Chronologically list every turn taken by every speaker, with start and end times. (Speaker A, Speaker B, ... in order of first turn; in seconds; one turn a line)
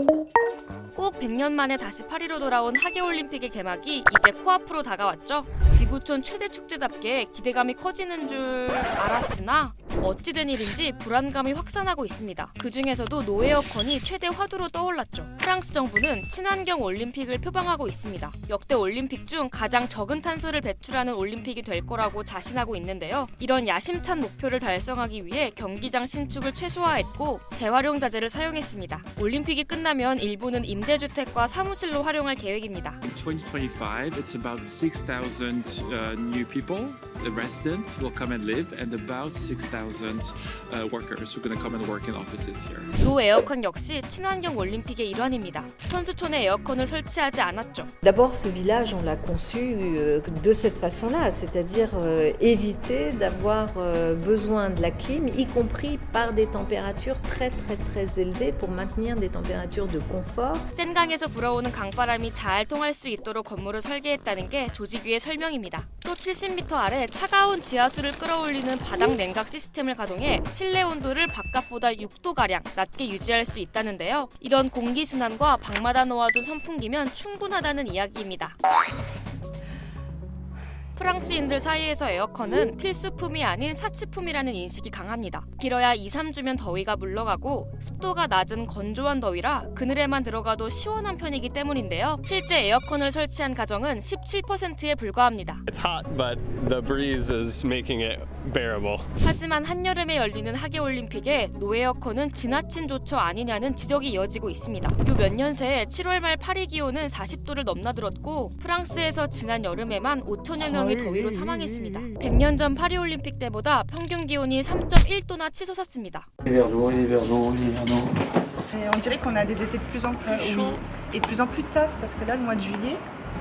Speaker A: 0.9-33.0
Speaker B: 33.0-42.9
Speaker A: 43.0-47.9
Speaker C: 48.0-60.7
Speaker A: 60.7-78.6
Speaker A: 81.0-95.6
Speaker D: 95.7-99.1
Speaker A: 99.2-116.3
Speaker E: 118.7-123.0